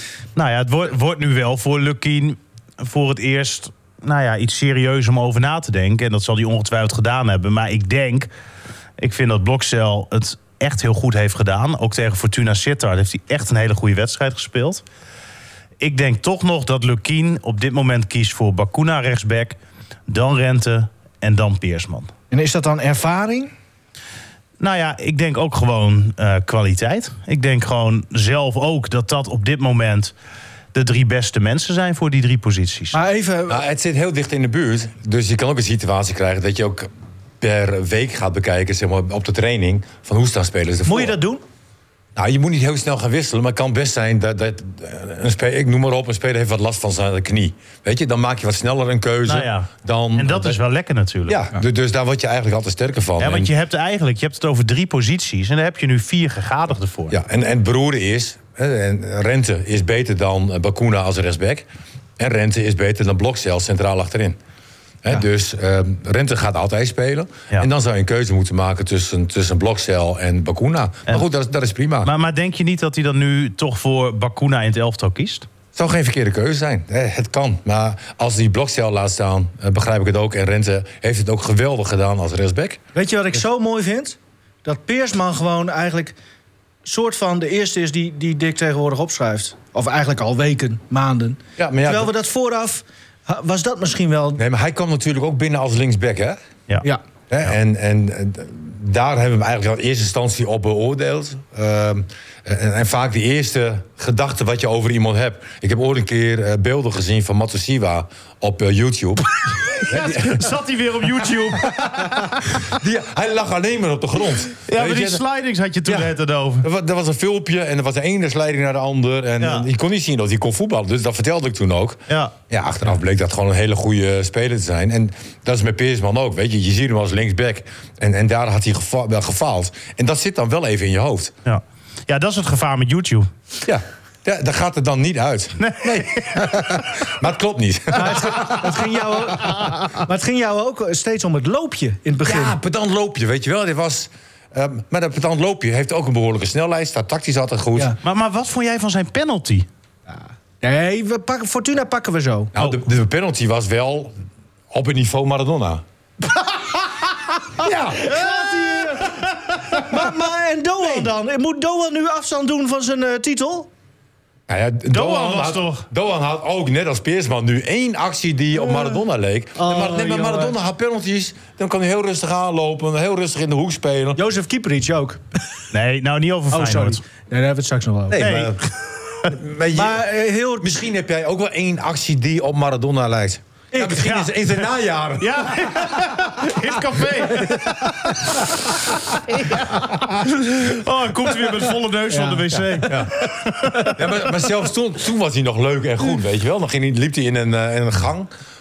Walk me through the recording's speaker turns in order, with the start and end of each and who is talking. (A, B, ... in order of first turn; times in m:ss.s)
0:00.4-0:08.3 A
0:09.0-0:14.8 A
0:15.8-0:19.6 A
0:20.1-0:22.1 A
0:22.3-0:23.5 B
0:24.6-0:30.1 A
0:30.7-0:33.0 A
0:32.9-0:33.6 B
0:33.5-0:36.9 C
0:37.4-0:41.2 C
0:40.8-0:41.4 B
0:42.2-0:50.6 C
0:49.2-0:51.4 A
0:51.3-0:53.5 C
0:53.2-0:57.2 A
0:57.1-1:01.7 C
1:02.2-1:04.4 C
1:05.0-1:12.1 C
1:12.0-1:15.5 A
1:15.7-1:22.8 C
1:22.9-1:26.2 B
1:26.8-1:34.4 B
1:31.6-1:32.1 C
1:34.4-1:36.4 C
1:37.3-1:49.3 C
1:49.7-1:52.6 A
1:49.8-1:50.6 C
1:51.7-1:55.2 C
1:54.6-1:56.6 A
1:55.8-2:11.3 C
1:59.4-1:59.7 A
2:02.1-2:02.3 A
2:11.4-2:13.3 A
2:13.6-2:18.8 C
2:15.6-2:16.6 A
2:17.9-2:22.6 B
2:19.5-2:19.9 A
2:22.2-2:27.9 C
2:28.0-2:29.7 A
2:30.1-2:32.5 B
2:32.5-2:34.1 C
2:34.7-2:35.8 C
2:37.6-2:38.2 C
2:38.0-2:39.1 B
2:38.1-2:39.9 A
2:39.8-2:43.7 B
2:44.5-2:54.2 C
2:44.9-2:45.8 A
2:49.6-2:50.5 B
2:54.2-2:55.6 B
2:55.7-2:57.0 A
2:56.5-2:58.3 B
2:58.1-2:58.7 C
2:58.2-2:58.5 A
2:59.2-3:05.9 C
2:59.7-3:00.8 B
3:03.7-3:04.2 B
3:03.9-3:04.3 A
3:05.2-3:13.9 A
3:07.1-3:08.5 C
3:12.1-3:14.0 B
3:12.8-3:13.1 C
3:13.8-3:18.3 C